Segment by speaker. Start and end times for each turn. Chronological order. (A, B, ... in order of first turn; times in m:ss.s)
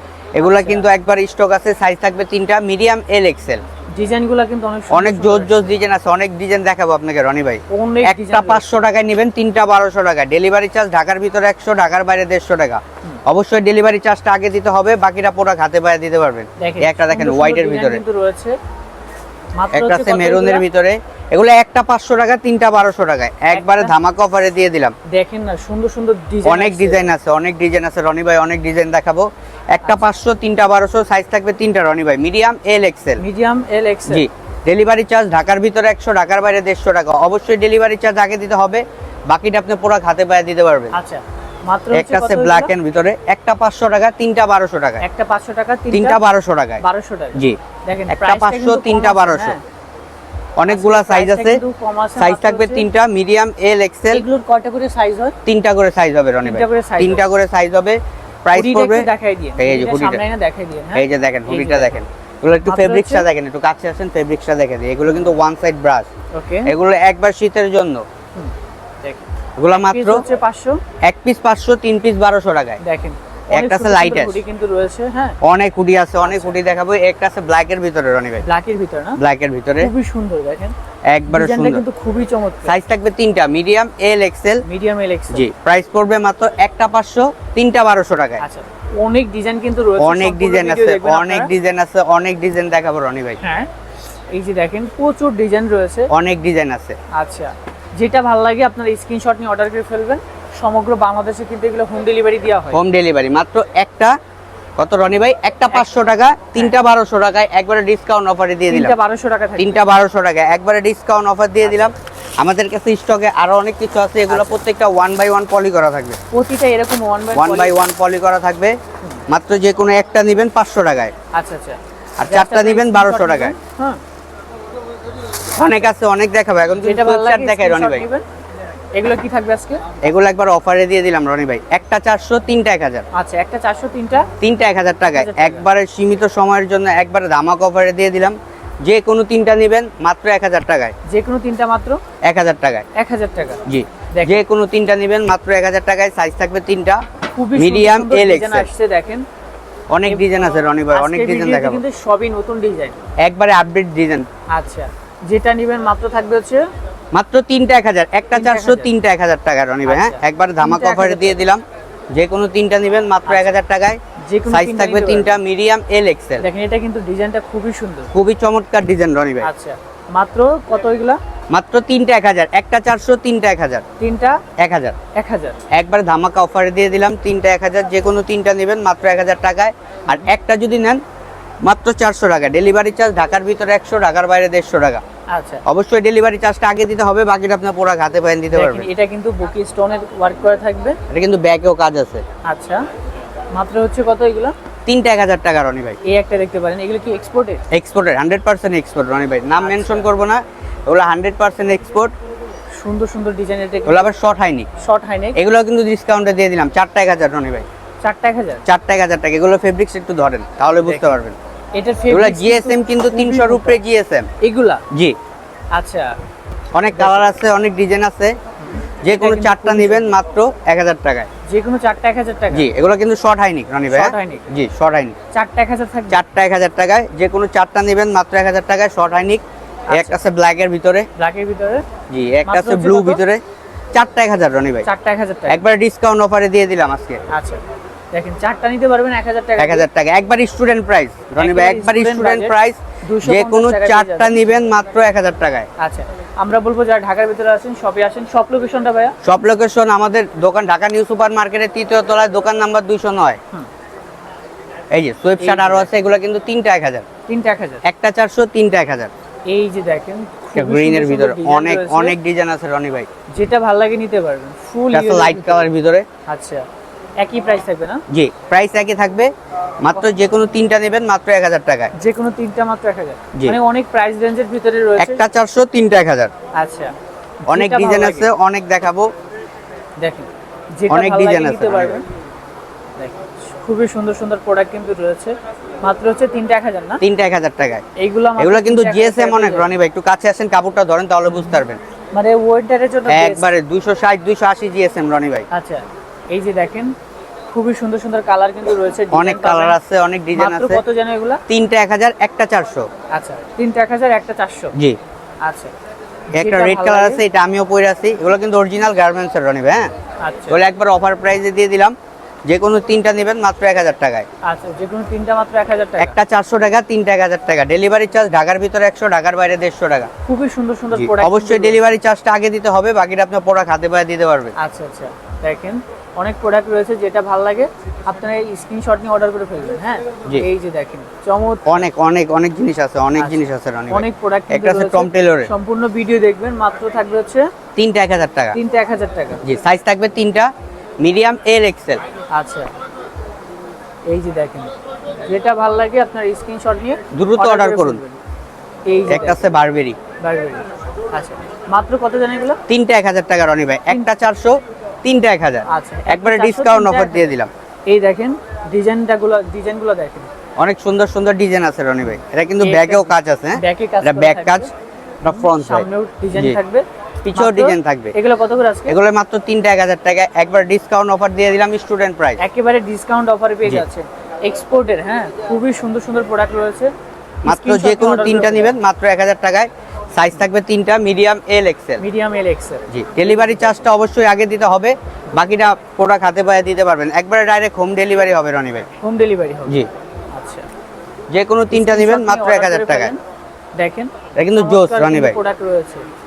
0:00.4-0:03.6 A
0:00.4-0:00.9 B
0:03.9-0:05.7 B
0:04.9-0:18.0 A
0:07.7-0:08.7 B
0:16.6-0:18.6 B
0:19.6-0:20.6 B
0:19.7-0:24.9 A
0:23.5-0:23.9 B
0:25.1-0:27.0 B
0:26.4-0:33.2 A
0:33.2-0:34.2 B
0:34.1-0:40.9 A
0:40.9-0:42.7 B
0:41.9-0:45.0 A
0:45.0-0:46.2 B
0:45.9-0:46.8 A
0:46.8-0:49.6 B
0:47.4-0:49.6 A
0:50.6-0:51.6 A
0:50.7-0:52.8 B
0:52.2-0:54.2 A
0:54.1-0:55.4 B
0:55.4-1:00.2 A
0:56.4-0:57.2 B
0:58.5-1:02.0 B
1:00.9-1:06.1 A
1:02.6-1:03.2 B
1:06.3-1:06.7 B
1:06.6-1:08.0 A
1:08.4-1:10.8 B
1:09.6-1:10.2 A
1:11.0-1:12.8 A
1:12.8-1:15.4 B
1:13.5-1:14.4 A
1:15.4-1:18.4 A
1:16.2-1:16.6 B
1:18.4-1:19.2 B
1:19.2-1:19.9 A
1:19.8-1:20.7 B
1:21.1-1:21.8 A
1:21.3-1:22.8 B
1:22.6-1:24.6 A
1:24.6-1:25.4 B
1:25.3-1:28.4 A
1:28.4-1:31.5 B
1:30.0-1:33.4 A
1:33.4-1:33.7 B
1:34.3-1:36.1 B
1:36.1-1:37.0 A
1:37.1-1:42.8 B
1:42.7-1:44.1 A
1:44.8-1:48.9 A
1:48.7-1:49.9 B
1:49.6-1:56.2 A
1:54.3-1:54.6 B
1:56.3-1:57.8 B
1:57.3-1:58.8 A
1:59.3-2:01.1 A
2:01.3-2:04.0 B
2:02.2-2:03.5 A
2:05.5-2:08.0 A
2:06.8-2:08.2 B
2:08.9-2:09.8 B
2:10.0-2:13.0 A
2:13.1-2:14.3 B
2:14.4-2:20.9 A
2:15.1-2:15.6 B
2:21.0-2:22.0 B
2:22.2-2:22.9 A
2:22.9-2:24.4 B
2:23.6-2:27.0 A
2:27.3-2:29.2 B
2:27.5-2:28.7 A
2:29.9-2:31.8 A
2:30.1-2:33.0 B
2:33.2-2:34.2 A
2:34.5-2:36.6 B
2:37.1-2:46.4 A
2:38.3-2:38.9 B
2:39.8-2:41.5 B
2:43.2-2:43.5 B
2:44.2-2:45.4 B
2:46.4-2:48.1 B
2:48.1-2:49.5 A
2:49.4-2:51.2 B
2:51.5-2:53.8 A
2:54.0-2:54.4 B
2:54.6-2:55.0 A
2:55.1-2:55.6 B
2:55.7-3:01.0 A
3:01.6-3:05.0 A
3:05.3-3:05.6 B
3:05.6-3:08.9 A
3:08.5-3:11.0 B
3:11.1-3:12.2 A
3:12.4-3:12.8 B
3:13.5-3:14.5 B
3:14.8-3:16.0 A
3:16.0-3:17.6 B
3:17.7-3:22.1 A
3:19.6-3:20.1 B
3:22.8-3:24.0 B
3:23.8-3:24.7 A
3:24.8-3:25.4 B
3:25.4-3:27.6 A
3:28.0-3:28.6 B
3:28.6-3:31.4 A
3:30.8-3:31.2 B
3:31.8-3:33.8 B
3:32.1-3:34.3 A
3:34.4-3:34.8 B
3:34.9-3:35.2 A
3:35.7-3:36.1 B
3:36.7-3:38.4 A
3:36.9-3:37.2 B
3:38.6-3:40.1 B
3:39.0-3:41.3 A
3:41.4-3:42.7 B
3:42.5-3:45.1 A
3:43.9-3:44.5 B
3:45.3-3:46.2 B
3:46.1-3:51.1 A
3:49.9-3:50.2 B
3:51.2-3:51.8 B
3:52.1-3:53.4 A
3:52.4-3:53.2 B
3:53.9-3:54.8 A
3:54.8-3:55.6 B
3:55.5-3:57.2 A
3:57.3-3:59.9 B
3:59.6-4:05.7 A
4:01.4-4:04.4 B
4:05.8-4:09.2 B
4:09.2-4:13.4 A
4:14.9-4:17.0 A
4:15.4-4:15.9 B
4:17.3-4:17.8 B
4:17.8-4:19.1 A
4:19.5-4:22.2 B
4:20.5-4:23.1 A
4:23.3-4:25.7 B
4:24.9-4:26.0 A
4:26.3-4:26.7 B
4:27.2-4:28.0 B
4:28.1-4:31.9 A
4:31.9-4:35.2 B
4:35.0-4:36.3 A
4:36.5-4:36.9 B
4:37.4-4:38.3 B
4:37.5-4:39.1 A
4:40.0-4:42.0 B
4:40.9-4:42.0 A
4:43.0-4:47.0 B
4:47.0-4:47.8 A
4:48.0-4:49.7 B
4:48.4-4:51.8 A
4:52.1-4:53.5 B
4:53.1-4:55.4 A
4:55.5-4:56.9 B
4:57.5-4:59.8 B
4:59.1-5:00.8 A
5:00.3-5:01.4 B
5:01.5-5:02.9 A
5:03.1-5:04.7 B
5:05.4-5:05.7 B
5:06.3-5:07.2 B
5:06.3-5:09.9 A
5:10.2-5:10.6 B
5:10.5-5:11.9 A
5:12.5-5:14.3 A
5:14.4-5:16.2 B
5:16.0-5:20.1 A
5:20.2-5:21.8 B
5:20.9-5:24.5 A
5:24.6-5:31.9 B
5:31.7-5:35.5 A
5:33.2-5:37.5 B
5:37.8-5:38.6 A
5:38.5-5:39.4 B
5:39.4-5:40.5 A
5:41.0-5:42.0 A
5:42.3-5:42.7 B
5:44.1-5:44.7 B
5:45.2-5:48.2 B
5:47.1-5:48.0 A
5:48.9-5:49.5 B
5:49.1-5:50.0 A
5:50.2-5:52.6 B
5:52.7-5:57.5 A
5:55.7-5:57.4 B
5:57.9-6:00.3 B
6:00.6-6:04.7 A
6:02.1-6:04.7 B
6:05.2-6:06.6 A
6:05.3-6:09.0 B
6:07.2-6:08.1 A
6:08.9-6:12.4 A
6:12.4-6:16.9 B
6:17.4-6:18.8 B
6:17.4-6:22.0 A
6:22.0-6:23.8 B
6:22.9-6:28.9 A
6:29.0-6:30.7 B
6:31.3-6:33.1 A
6:31.7-6:33.2 B
6:33.8-6:36.0 B
6:34.4-6:35.4 A